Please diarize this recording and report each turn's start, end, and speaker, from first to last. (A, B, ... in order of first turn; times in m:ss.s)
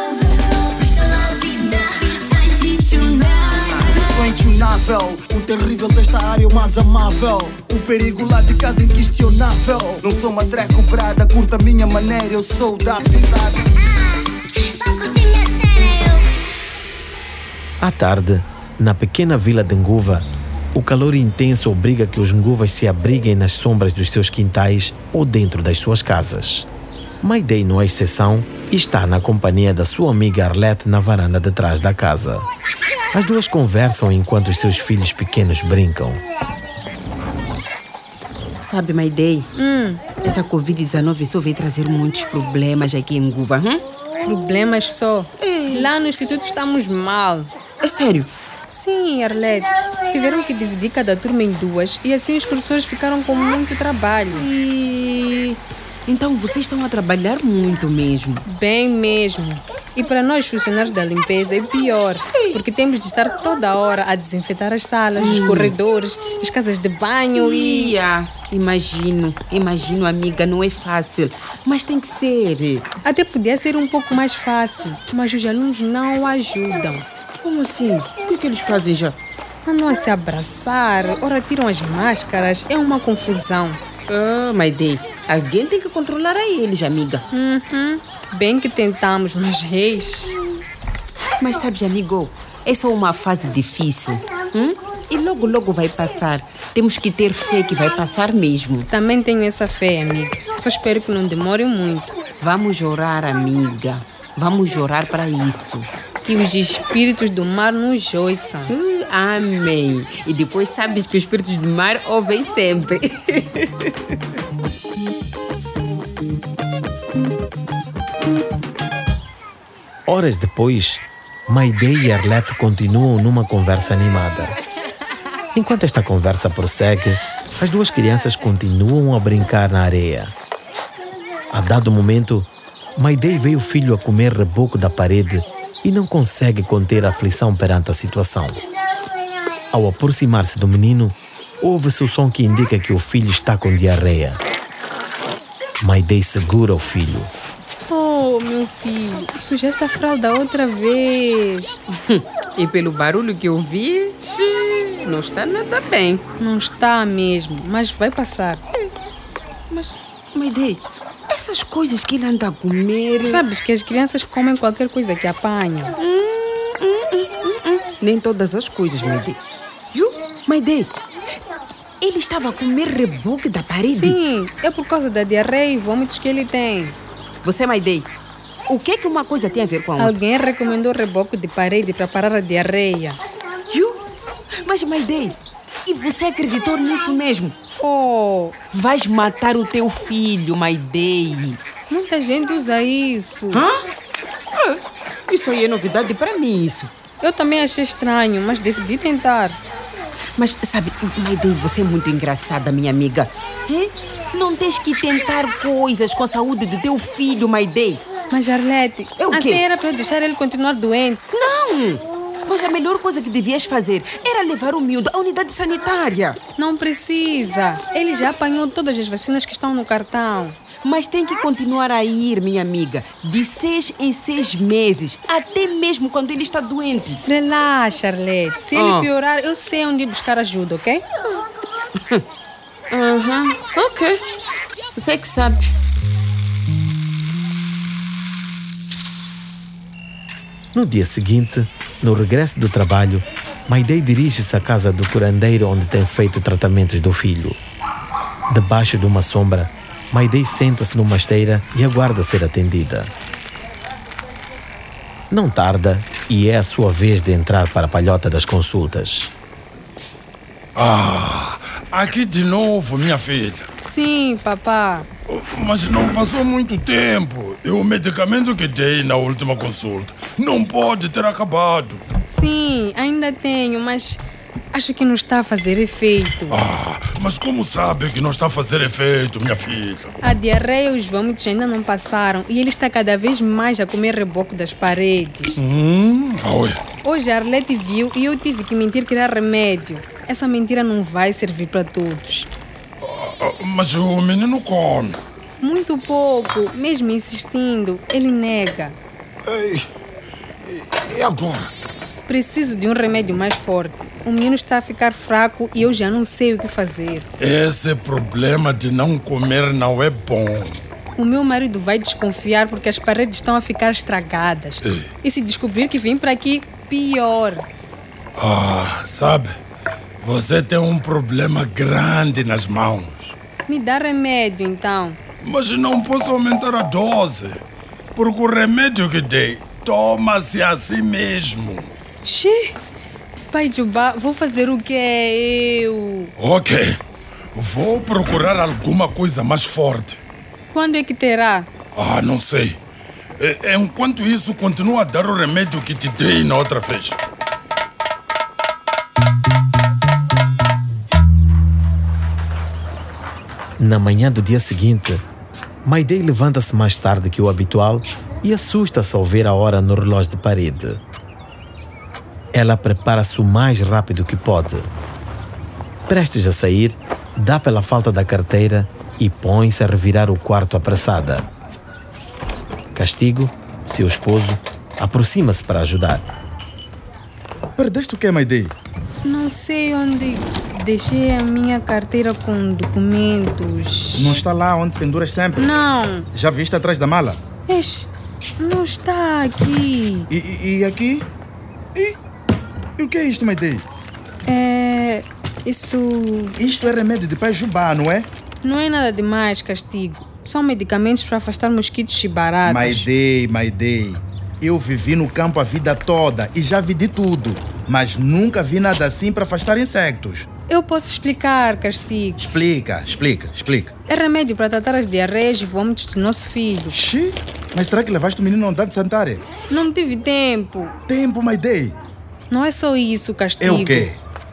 0:00.8-0:01.7 A
0:02.8-0:13.8 A
0:17.8-0:26.7 B
0:27.2-0:32.5 B
0:33.1-0:36.2 B
0:38.6-0:39.5 C
0:39.6-0:40.0 D
0:40.2-0:43.8 C
0:44.2-0:47.5 D
0:45.4-0:45.9 C
0:47.8-0:48.3 C
0:48.7-0:54.5 D
0:54.4-0:58.4 C
0:58.4-1:08.0 D
1:05.2-1:05.7 C
1:07.3-1:12.9 C
1:13.0-1:17.0 D
1:17.4-1:19.2 C
1:19.6-1:23.8 D
1:24.1-1:27.2 C
1:27.3-1:30.4 D
1:31.4-1:38.9 C
1:38.9-1:42.2 D
1:42.4-1:45.9 C
1:46.2-1:48.7 D
1:48.7-1:53.7 C
2:00.1-2:04.6 B
2:05.5-2:10.3 B
2:11.5-2:18.6 B
2:19.7-2:24.4 B
2:25.8-2:27.3 B
2:27.9-2:31.8 D
2:32.1-2:36.2 C
2:36.4-2:38.6 D
2:39.7-2:43.4 C
2:43.2-2:45.9 D
2:46.0-2:49.4 C
2:49.9-2:50.9 C
2:52.0-2:54.2 C
2:53.9-2:57.0 D
2:57.4-2:58.1 C
2:58.7-3:00.1 C
3:00.0-3:03.2 D
3:03.7-3:04.0 C
3:04.6-3:07.6 C
3:07.8-3:08.6 D
3:08.7-3:11.6 C
3:11.9-3:13.6 D
3:14.6-3:16.9 C
3:17.2-3:19.6 D
3:20.4-3:28.0 C
3:28.3-3:31.2 D
3:29.2-3:29.6 C
3:31.3-3:36.4 C
3:36.6-3:40.6 D
3:40.8-3:47.2 C
3:47.2-3:51.0 D
3:48.7-3:49.1 C
3:52.9-3:54.2 C
3:55.0-3:55.7 C
4:00.7-4:07.6 B
4:08.5-4:13.1 B
4:15.3-4:19.3 B
4:20.8-4:23.7 E
4:23.8-4:25.1 D
4:25.3-4:32.0 E
4:32.3-4:36.6 D
4:36.5-4:40.1 E
4:40.2-4:45.6 D
4:45.6-4:46.8 E
4:47.0-4:52.5 D
4:53.0-4:55.2 E
4:55.6-4:59.0 D
4:59.4-4:59.9 E
5:00.6-5:01.7 E
5:02.2-5:07.2 D
5:07.4-5:10.8 E
5:11.2-5:17.7 D
5:18.4-5:19.6 E
5:20.2-5:23.4 E
5:23.7-5:25.2 D
5:25.4-5:27.6 E
5:28.2-5:31.9 E
5:32.2-5:32.8 D
5:33.5-5:36.3 D
5:36.4-5:37.0 E
5:37.6-5:40.2 E
5:40.7-5:41.7 D
5:41.9-5:42.8 E
5:43.4-5:47.2 E
5:53.8-5:55.2 B
5:55.8-6:01.0 B
6:02.5-6:04.9 B
6:06.1-6:11.5 B
6:12.9-6:16.2 B
6:17.8-6:18.8 F
6:19.2-6:24.4 D
6:24.2-6:25.8 F
6:25.6-6:26.3 D
6:26.3-6:27.4 F
6:27.7-6:28.1 D
6:28.6-6:30.3 D
6:30.3-6:31.3 F
6:33.0-6:33.8 F
6:34.5-6:36.6 D
6:36.6-6:38.3 F
6:38.6-6:43.1 D
6:42.7-6:50.5 F
6:50.7-6:52.4 D
6:52.4-6:53.9 F
6:54.1-6:57.0 D
6:56.9-6:59.4 F
6:59.7-7:00.9 D
7:01.1-7:02.0 F
7:02.5-7:04.1 D
7:03.6-7:04.2 F